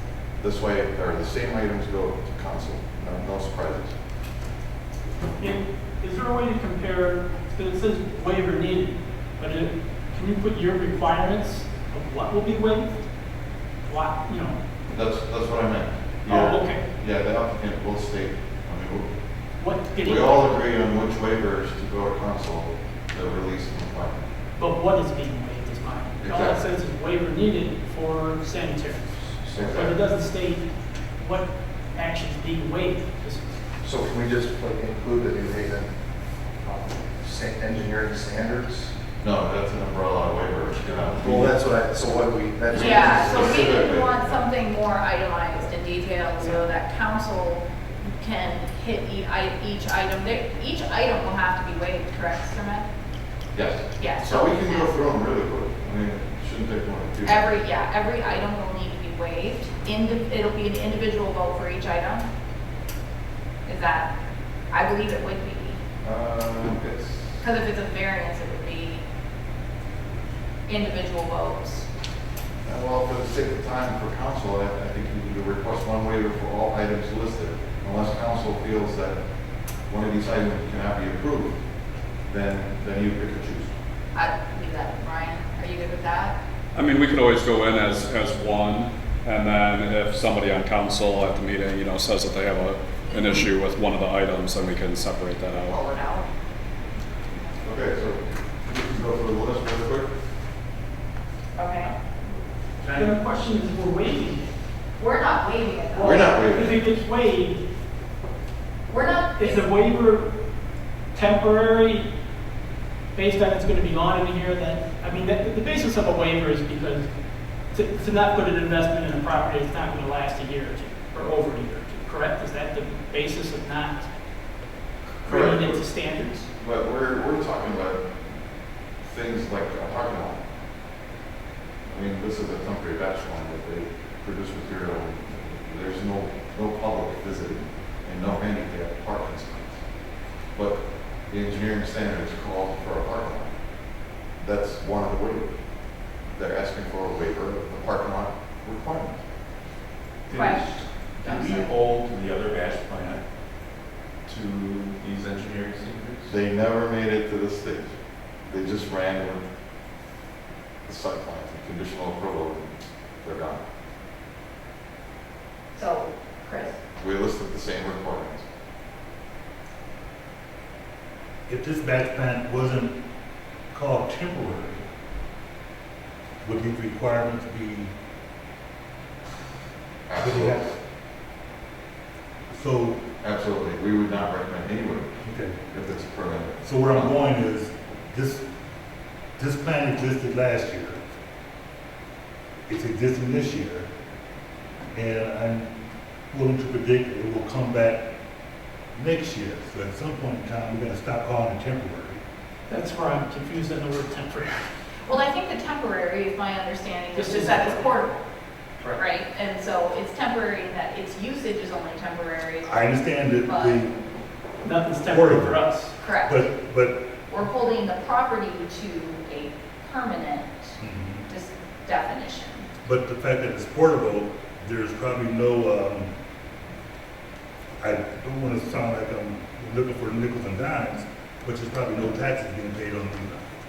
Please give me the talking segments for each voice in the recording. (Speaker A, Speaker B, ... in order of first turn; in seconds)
Speaker A: 0.4-4.0, 14.9-19.1, 20.0-24.2, 26.2-26.6, 29.5-30.0, 39.2-41.6, 42.7-44.5, 53.5-57.5, 66.0-67.5, 72.6-79.2, 79.9-81.6, 82.3-83.7, 97.6-100.1, 106.0-106.8, 125.2-125.8, 126.3-128.1, 129.0-130.4, 131.9-139.8, 140.5-143.5, 144.4-145.6, 146.2-149.2, 156.3-159.4, 160.8-163.6, 167.0-168.4, 180.1-180.7, 183.2-185.1, 185.7-187.1
Speaker B: 5.4-12.9, 13.9-14.6, 16.3-16.8, 19.6-20.6, 24.6-30.7, 31.2-33.5, 102.9-104.5, 106.0-107.6, 109.4-110.3, 111.1-112.1, 113.1-117.1, 117.7-124.1, 125.2-126.5, 202.7-204.6, 207.1-207.9, 214.6-215.9
Speaker C: 29.4-29.9, 33.8-35.9, 36.6-38.9, 41.0-43.9
Speaker D: 42.7-52.9, 54.0-54.9, 57.2-62.3, 63.6-64.1, 64.7-65.8, 67.4-69.0, 70.7-71.9, 84.1-86.4, 95.6-96.3, 101.6-102.0, 105.0-106.1, 108.9-109.6, 150.3-150.7, 151.2-151.7, 165.8-166.8, 205.1-208.2, 209.0-213.8, 216.0-216.5, 217.3-222.7
Speaker E: 86.7-95.8
Speaker F: 150.3-153.2, 154.3-156.3
Speaker G: 171.5-173.0, 173.7-174.9, 176.4-177.9, 180.2-180.7, 182.5-183.0, 185.2-185.6, 186.6-188.4, 189.4-191.0, 192.7-193.9, 194.9-195.7, 196.3-198.1, 198.9-202.2, 212.6-214.0, 215.0-215.6, 216.3-217.0, 220.8-221.3, 222.8-226.1, 227.8-233.5